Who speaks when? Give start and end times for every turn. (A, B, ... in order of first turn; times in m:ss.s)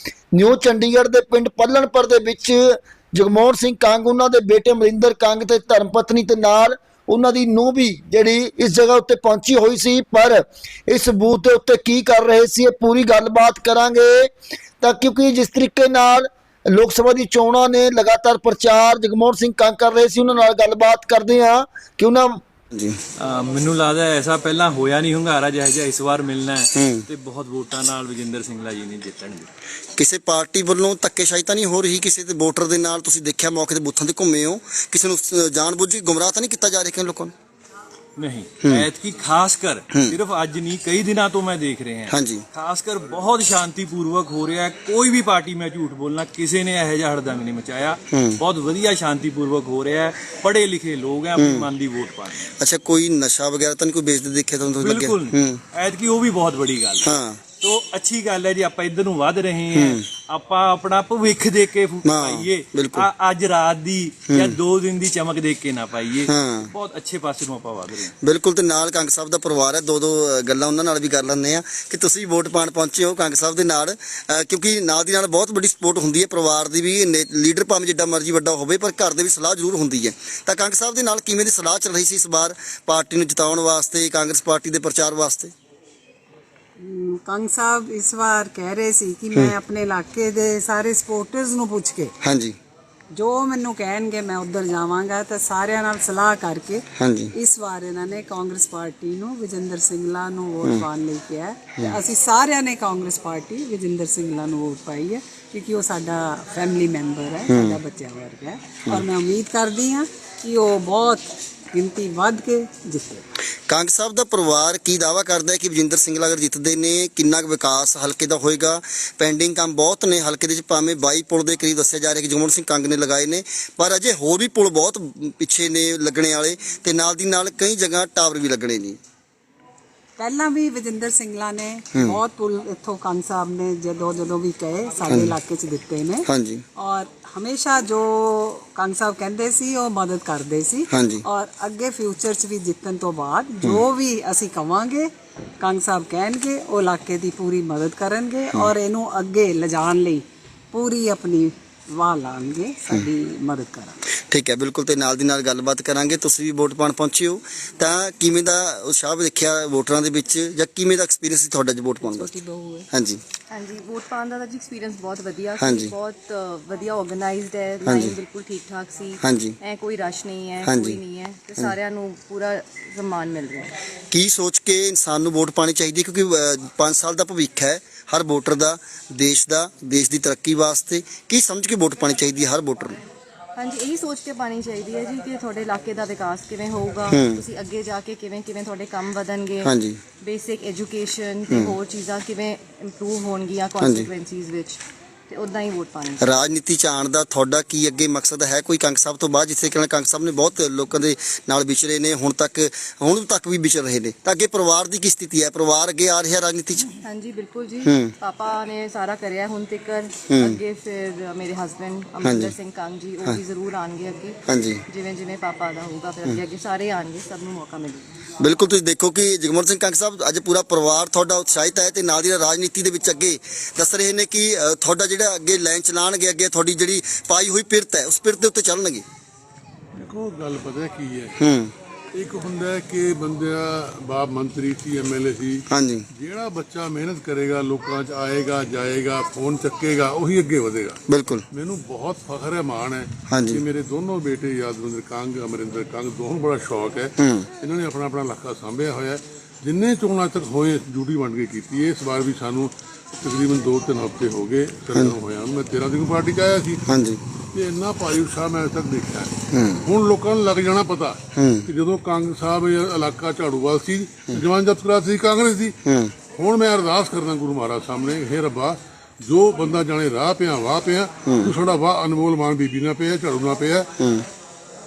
0:00.3-0:14.3 A
0:14.8-0:22.4 A
0:22.7-0:23.0 B
0:23.2-0:29.5 C
0:26.8-0:27.0 B
0:30.0-0:37.3 B
0:38.2-0:52.5 C
0:38.6-0:38.9 B
0:39.9-0:40.2 B
0:42.1-0:42.4 B
0:48.1-0:48.4 B
0:51.4-0:51.7 B
0:52.6-0:55.6 B
0:54.8-1:08.1 C
0:57.0-0:57.4 B
0:59.7-1:00.0 B
1:02.0-1:03.1 B
1:04.3-1:04.6 B
1:06.3-1:06.7 B
1:08.2-1:25.5 B
1:26.8-1:32.1 D
1:32.2-1:32.6 B
1:33.1-1:53.2 D
1:37.0-1:37.3 B
1:47.5-1:47.8 B
1:53.7-2:09.0 B
2:10.2-2:16.2 D
2:15.1-2:15.3 B
2:16.3-2:16.6 B
2:16.8-2:34.0 D
2:20.9-2:21.2 B
2:34.2-2:42.4 B
2:42.3-2:42.8 D
2:42.9-2:43.2 B
2:43.5-2:53.7 E
2:45.6-2:45.9 B
2:47.8-2:48.2 B
2:49.2-2:49.6 B
2:50.6-2:51.0 B
2:54.1-3:03.0 B
3:03.6-3:09.7 E
3:07.1-3:07.4 B
3:09.6-3:10.0 B
3:10.2-3:16.2 E
3:11.5-3:11.8 B
3:13.8-3:14.1 B
3:16.2-3:26.9 B
3:27.1-3:38.1 E
3:27.8-3:28.1 B
3:30.3-3:30.6 B
3:32.2-3:32.5 B
3:34.5-3:34.8 B
3:38.4-3:49.0 B
3:50.0-3:51.4 F
3:51.4-3:51.7 B
3:52.1-4:16.8 F
3:55.7-3:56.1 B
4:01.1-4:01.4 B
4:03.3-4:03.6 B
4:07.2-4:07.5 B
4:16.9-4:17.2 B
4:17.5-4:33.9 F
4:19.5-4:19.8 B
4:21.4-4:21.7 B
4:25.8-4:26.1 B
4:31.2-4:31.5 B
4:34.0-4:34.2 B